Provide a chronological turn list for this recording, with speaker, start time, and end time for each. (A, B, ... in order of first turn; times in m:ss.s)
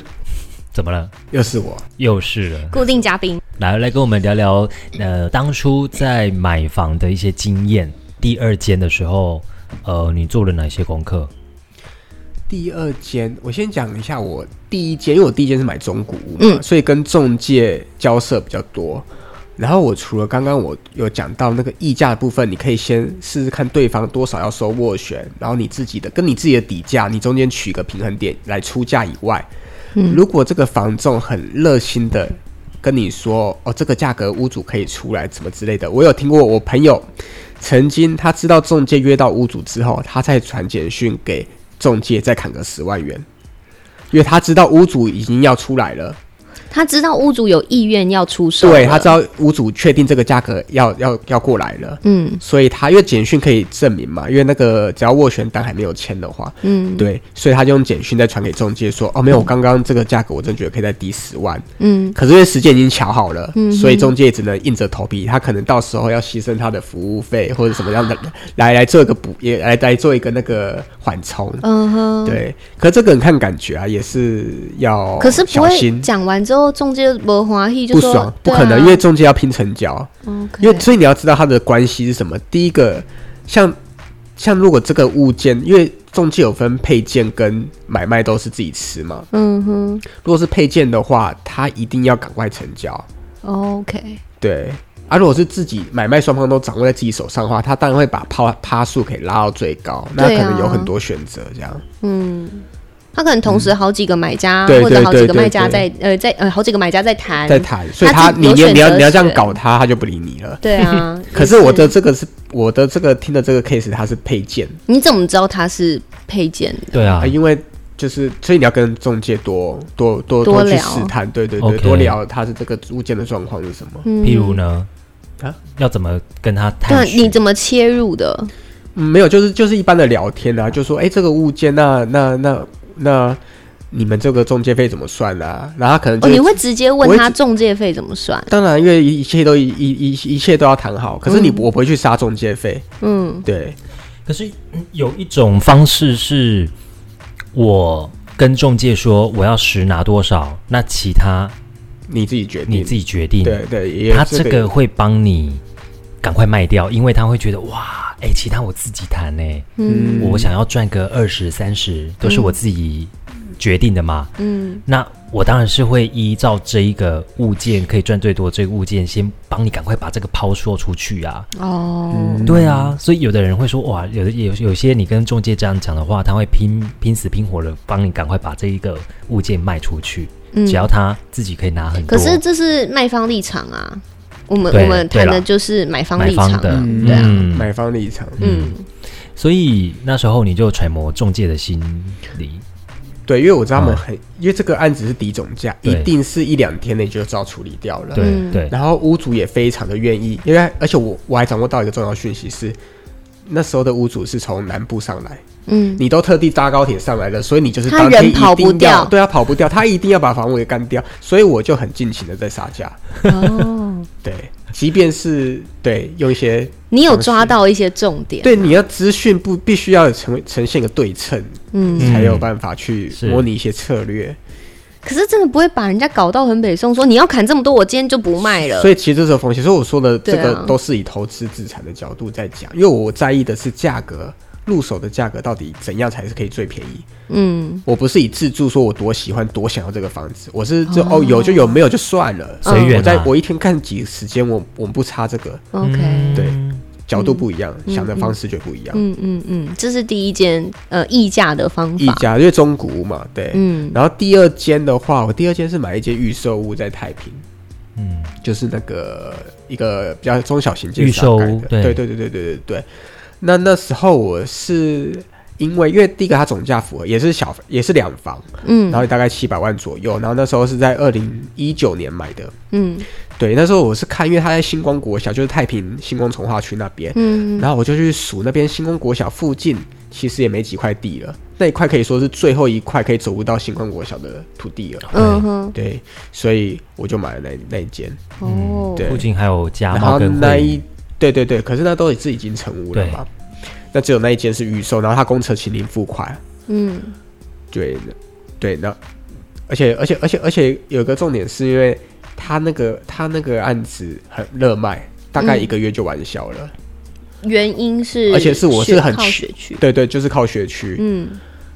0:00.7-0:01.1 A
0:01.3-0:01.8 B
0:02.0-0:02.9 A
0:02.7-0:03.4 C
0:03.6-0:11.3 A
0:12.5-0:29.5 B
0:30.0-0:30.2 C
0:30.0-0:43.2 B
0:44.1-0:46.2 B
0:46.7-0:49.2 C
0:48.6-1:11.6 B
0:52.0-0:52.4 C
0:56.6-0:57.1 C
1:01.8-1:02.2 C
1:03.5-1:04.1 C
1:11.6-1:12.4 C
1:12.2-1:16.1 B
1:15.2-1:19.0 C
1:17.9-1:23.8 B
1:20.3-1:20.9 C
1:24.4-1:29.3 B
1:29.3-1:30.1 C
1:30.2-1:33.1 B
1:33.4-1:34.2 C
1:34.4-1:41.8 B
1:40.2-1:40.9 C
1:42.0-1:49.6 C
1:43.4-1:43.7 B
1:44.7-1:45.9 B
1:47.4-1:50.6 B
1:50.6-1:51.9 C
1:51.3-1:54.8 B
1:54.9-1:57.2 C
1:56.9-1:57.4 A
1:57.2-2:04.1 B
2:00.4-2:01.1 C
2:01.6-2:02.2 A
2:04.0-2:04.6 C
2:04.2-2:04.9 A
2:05.7-2:07.4 A
2:06.9-2:08.5 C
2:08.9-2:13.4 B
2:13.9-2:17.4 B
2:16.2-2:18.5 C
2:18.5-2:22.8 B
2:21.3-2:21.7 C
2:23.0-2:23.5 C
2:23.4-2:23.8 B
2:24.2-2:26.7 A
2:27.5-2:31.6 A
2:32.1-2:34.7 B
2:32.7-2:35.6 A
2:36.2-2:39.7 A
2:39.8-2:40.4 C
2:39.9-2:40.5 B
2:40.2-2:44.3 A
2:42.2-2:42.6 C
2:44.4-2:44.8 C
2:44.9-2:51.5 A
2:51.6-2:52.5 C
2:52.1-2:53.0 B
2:52.5-3:02.4 A
3:00.5-3:00.9 C
3:02.0-3:07.4 C
3:04.7-3:05.5 A
3:06.2-3:07.7 A
3:06.7-3:08.4 B
3:08.4-3:08.8 A
3:08.4-3:08.8 C
3:09.4-3:12.6 A
3:13.3-3:22.8 B
3:13.8-3:14.0 A
3:15.8-3:16.1 A
3:18.2-3:18.8 A
3:18.2-3:18.6 C
3:23.5-3:25.4 B
3:25.7-3:26.0 C
3:26.0-3:33.1 B
3:27.9-3:29.1 C
3:33.3-3:34.1 C
3:34.2-3:37.6 B
3:36.9-3:38.6 C
3:38.4-3:44.4 B
3:41.7-3:42.2 C
3:42.0-3:42.5 A
3:43.1-3:43.5 A
3:45.0-3:48.9 C
3:48.4-3:57.1 B
3:50.2-3:50.8 C
3:57.3-3:57.8 C
3:57.9-4:05.7 B
4:00.9-4:01.8 C
4:02.6-4:03.0 C
4:02.6-4:03.3 A
4:05.7-4:06.5 C
4:05.8-4:06.8 A
4:06.4-4:09.0 B
4:07.1-4:08.4 C
4:08.9-4:12.3 C
4:12.0-4:17.4 B
4:13.5-4:14.0 C
4:18.0-4:18.3 A
4:18.4-4:22.9 B
4:21.0-4:22.0 A
4:23.4-4:32.5 B
4:28.6-4:29.1 C
4:32.7-4:33.1 C
4:33.4-4:48.2 B
4:37.1-4:37.7 C
4:45.1-4:45.4 A
4:45.1-4:45.8 C
4:48.4-4:49.1 C
4:48.4-4:50.8 A
4:49.0-4:49.3 B
4:49.9-4:53.3 B
4:52.9-4:53.2 A
4:53.9-4:56.4 B
4:56.7-4:57.1 C
4:57.7-4:59.0 B
4:59.7-5:06.7 B
5:05.4-5:05.7 C
5:07.4-5:09.8 C
5:08.3-5:11.0 B
5:11.0-5:11.4 C